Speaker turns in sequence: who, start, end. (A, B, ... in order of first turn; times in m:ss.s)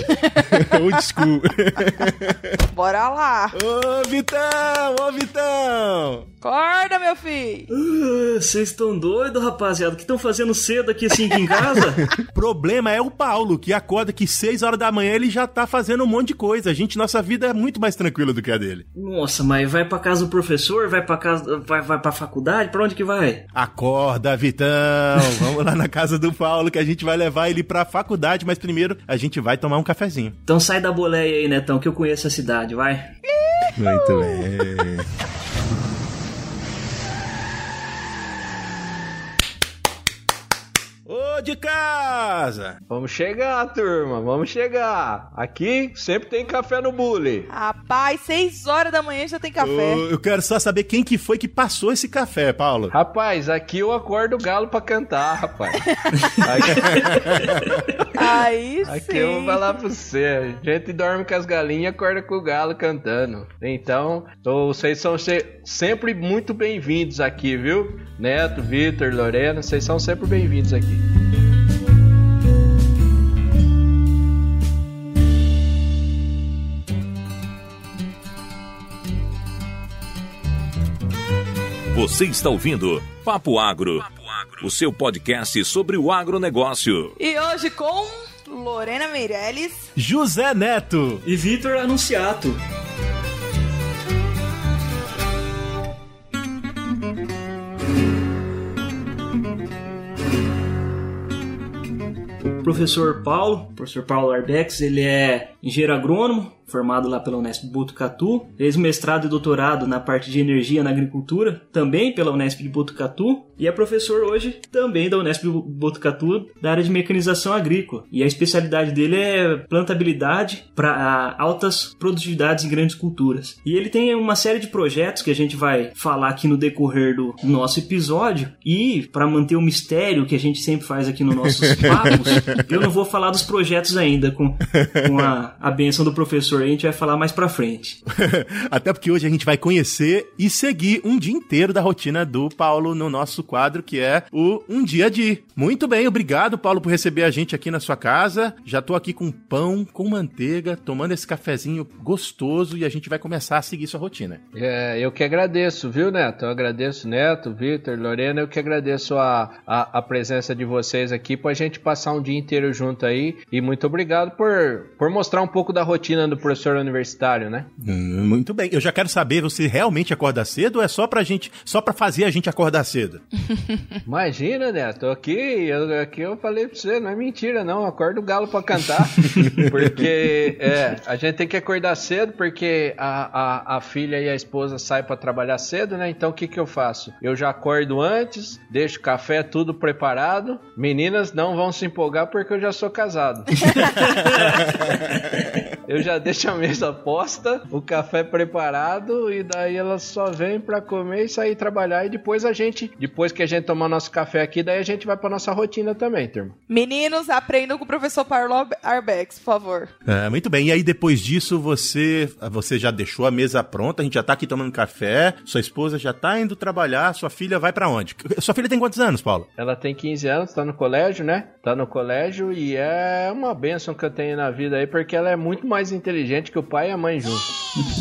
0:00.2-0:00.8 A
0:00.3-0:02.6 B
0:02.7-0:03.6 A
0:03.5-0:06.3 B
0:06.4-0:07.7 A
0:07.7-0:12.1 C
0:12.2-0:18.8 B
0:19.0-0:23.4 C
0:23.5-0:30.4 B
0:30.5-0:33.1 C
0:33.3-0:34.5 A
0:33.8-0:35.1 B
0:41.1-0:42.8 B
0:42.9-0:47.5 D
0:47.5-0:50.0 A
0:49.6-0:52.9 B
0:52.9-0:55.8 D
0:56.3-1:11.0 D
0:56.9-0:57.6 B
0:58.1-0:59.6 A
1:21.9-1:27.1 E
1:27.2-1:29.9 A
1:30.0-1:31.2 B
1:31.2-1:32.6 C
1:42.4-2:18.0 C
2:11.7-2:12.6 B
2:14.8-2:15.3 B
2:18.1-2:34.4 B
2:34.5-2:47.7 D
2:47.8-2:53.2 B
2:54.0-3:14.7 D
3:15.8-3:26.5 D
3:26.7-3:29.9 A
3:30.0-3:39.5 B
3:39.6-3:47.5 D